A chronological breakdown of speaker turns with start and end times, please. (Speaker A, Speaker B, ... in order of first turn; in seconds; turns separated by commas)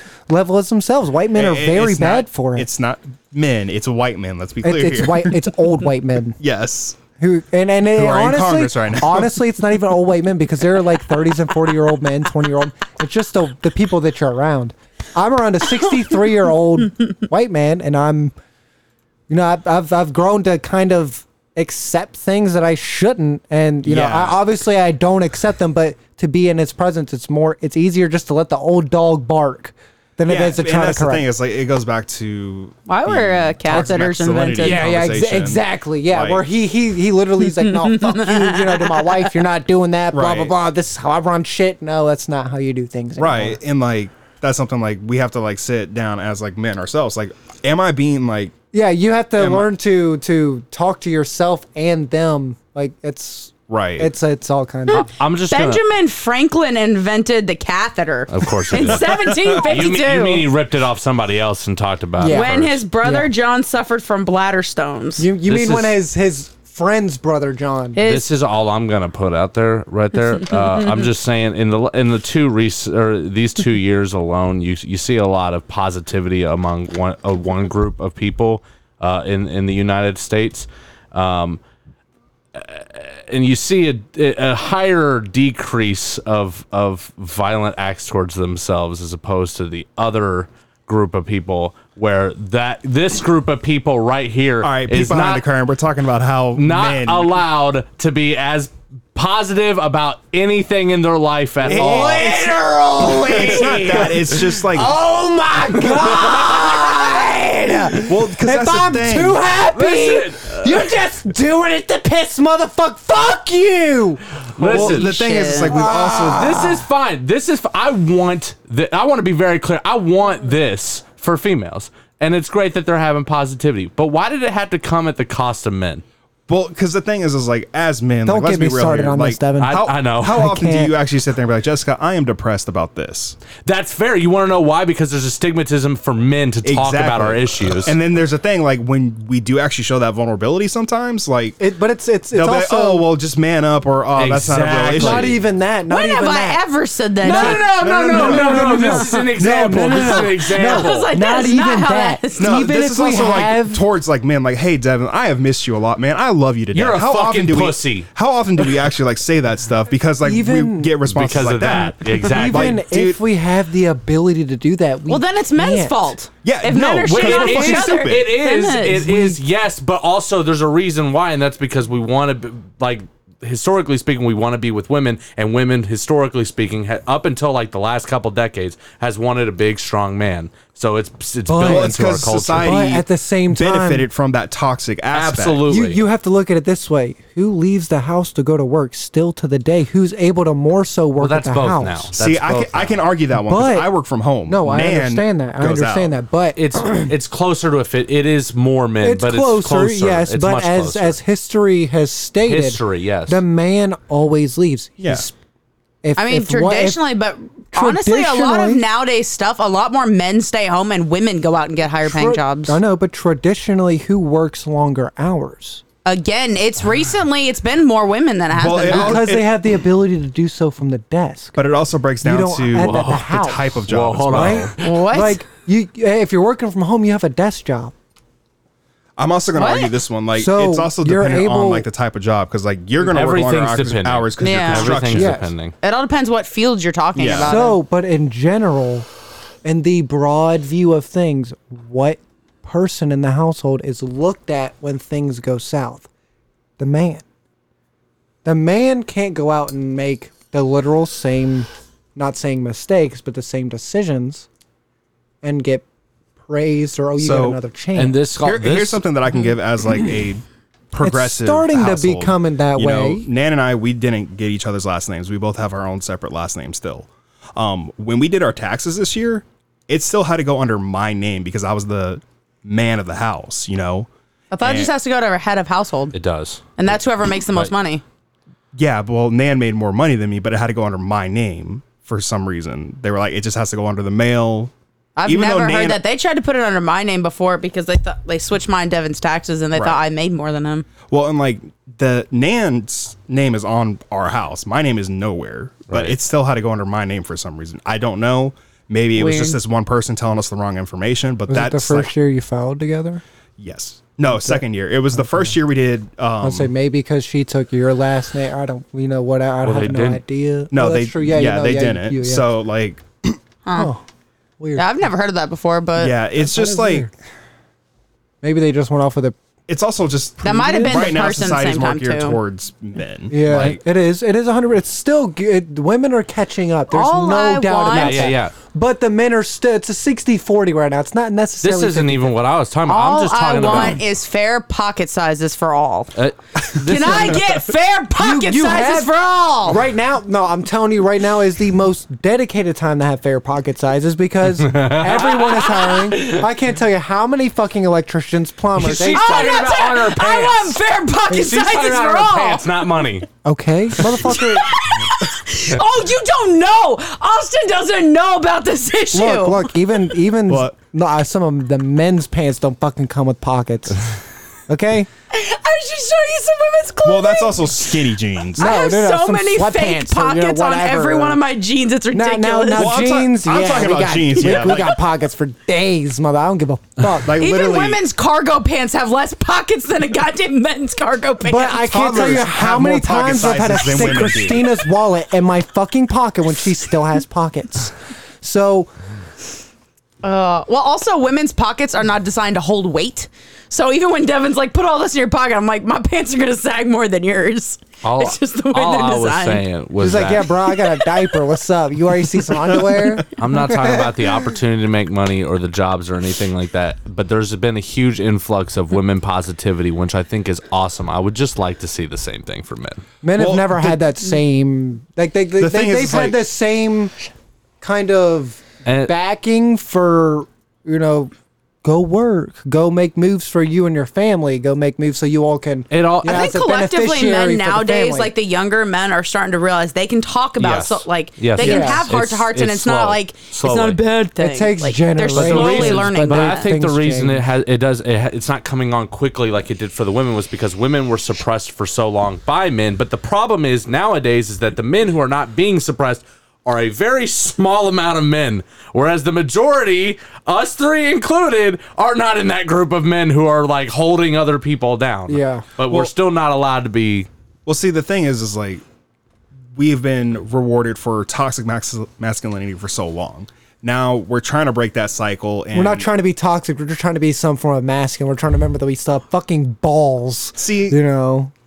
Speaker A: 0.3-2.7, Speaker B: 1.4-5.4, Speaker A: 4.6-6.4, Speaker B: 6.4-7.0, Speaker A: 7.2-18.3, Speaker B: 7.9-9.4, Speaker A: 19.3-31.2, Speaker B: 23.9-24.4, Speaker B: 30.3-36.4, Speaker C: 32.9-34.8, Speaker A: 34.6-43.6, Speaker C: 37.5-39.3, Speaker B: 40.1-40.5, Speaker B: 43.2-48.5, Speaker A: 48.7-55.0, Speaker B: 49.4-49.7, Speaker B: 53.7-54.1, Speaker D: 54.9-55.8, Speaker C: 54.9-60.5, Speaker D: 58.3-62.8, Speaker B: 58.8-59.7, Speaker A: 62.2-63.3, Speaker C: 62.3-65.3, Speaker A: 65.2-68.0, Speaker D: 65.5-66.0, Speaker C: 68.0-68.3, Speaker D: 68.0-81.6, Speaker D: 82.5-95.4, Speaker B: 94.6-97.4, Speaker D: 96.5-104.4, Speaker B: 101.7-102.4, Speaker A: 101.7-114.8, Speaker B: 103.2-104.9, Speaker D: 105.6-106.8, Speaker B: 108.1-109.4, Speaker D: 109.7-110.9, Speaker D: 114.6-115.2, Speaker B: 114.6-116.8, Speaker C: 114.7-115.8, Speaker A: 115.7-116.8, Speaker D: 115.8-126.0, Speaker B: 126.5-133.4, Speaker A: 128.3-130.9, Speaker D: 129.6-130.4, Speaker D: 133.6-137.9, Speaker B: 136.6-141.6, Speaker A: 141.6-143.1, Speaker B: 142.3-145.4, Speaker D: 144.1-145.4, Speaker A: 144.9-146.6, Speaker C: 145.9-147.8, Speaker A: 147.2-153.8, Speaker D: 147.2-151.1, Speaker B: 147.7-150.2, Speaker C: 150.4-152.6, Speaker B: 152.4-163.2, Speaker D: 156.7-158.9, Speaker A: 160.2-160.9, Speaker D: 161.1-162.8, Speaker A: 162.2-166.1, Speaker C: 165.1-169.1, Speaker B: 166.4-168.3, Speaker D: 167.1-182.8, Speaker A: 167.5-167.9, Speaker A: 168.8-169.4, Speaker A: 181.5-182.0, Speaker B: 181.6-185.7, Speaker A: 182.6-184.1, Speaker D: 185.1-186.0, Speaker A: 185.7-192.1, Speaker D: 191.2-193.0, Speaker B: 192.2-196.2, Speaker A: 193.4-193.9, Speaker A: 194.5-197.1, Speaker D: 196.6-201.2, Speaker A: 199.0-205.3, Speaker D: 202.5-203.4, Speaker B: 205.0-205.3, Speaker A: 206.0-207.0, Speaker C: 206.2-212.8, Speaker A: 207.7-208.8, Speaker A: 212.1-215.8, Speaker C: 216.1-219.2, Speaker B: 218.5-219.5, Speaker A: 218.8-221.6, Speaker B: 221.6-224.7, Speaker A: 222.2-227.9, Speaker D: 222.8-223.3, Speaker D: 223.9-224.9, Speaker C: 224.8-225.4, Speaker B: 229.2-235.4, Speaker C: 229.6-230.0, Speaker A: 230.3-231.9, Speaker D: 233.0-235.8, Speaker C: 234.4-235.0, Speaker A: 235.1-235.5, Speaker C: 235.8-237.8, Speaker B: 237.1-237.6, Speaker A: 237.3-239.1, Speaker A: 239.6-246.1, Speaker A: 246.8-247.2, Speaker A: 248.4-254.5, Speaker A: 255.4-255.8, Speaker A: 256.4-258.2, Speaker B: 257.2-257.6, Speaker D: 257.9-259.0, Speaker B: 258.4-274.9, Speaker A: 261.0-263.3, Speaker C: 274.5-276.1, Speaker D: 276.1-276.9, Speaker C: 276.8-278.0, Speaker D: 277.5-277.7, Speaker B: 278.7-284.7, Speaker C: 285.1-290.9, Speaker B: 285.2-286.0, Speaker B: 289.8-290.0, Speaker B: 291.1-302.1, Speaker D: 295.9-296.1, Speaker C: 299.2-299.6, Speaker A: 301.5-303.2, Speaker B: 303.6-306.7, Speaker A: 304.3-305.6, Speaker A: 306.4-312.5, Speaker D: 309.6-310.2, Speaker B: 310.7-313.4, Speaker C: 313.6-313.9, Speaker A: 313.7-314.0, Speaker A: 314.6-315.1, Speaker C: 314.8-316.1, Speaker B: 316.0-317.1, Speaker A: 316.4-317.1, Speaker A: 318.4-319.4, Speaker B: 319.7-323.8, Speaker C: 320.4-322.4, Speaker A: 320.5-321.2, Speaker A: 323.3-332.4, Speaker C: 326.9-328.3, Speaker D: 327.9-328.5, Speaker D: 331.6-334.0, Speaker C: 332.9-336.1, Speaker D: 336.1-337.5, Speaker C: 336.8-339.8, Speaker A: 337.0-337.4, Speaker A: 338.2-349.7, Speaker D: 344.6-346.5, Speaker D: 348.8-350.8, Speaker C: 349.1-352.9, Speaker D: 351.3-353.3, Speaker A: 353.4-354.7, Speaker D: 354.0-354.3, Speaker C: 354.2-359.7, Speaker A: 359.1-364.1, Speaker B: 360.5-360.8, Speaker A: 364.7-365.1, Speaker C: 365.3-373.0, Speaker B: 367.1-368.8, Speaker A: 368.6-371.4, Speaker A: 372.1-377.4, Speaker B: 372.8-375.0, Speaker B: 377.2-378.0, Speaker C: 377.4-381.9, Speaker A: 381.4-388.9, Speaker B: 381.8-384.7, Speaker C: 390.2-399.6, Speaker D: 398.0-400.6, Speaker A: 400.0-404.2, Speaker D: 403.4-413.0, Speaker A: 413.2-417.1, Speaker B: 413.4-414.0, Speaker B: 415.6-416.4, Speaker A: 417.8-428.3, Speaker D: 418.8-419.1, Speaker D: 425.9-426.5, Speaker C: 426.2-436.7, Speaker D: 430.6-434.0, Speaker A: 431.6-432.1, Speaker A: 434.4-437.5, Speaker D: 435.3-457.3, Speaker A: 455.3-455.7, Speaker B: 457.6-458.8, Speaker B: 459.8-466.1, Speaker A: 465.7-471.5, Speaker B: 470.6-471.0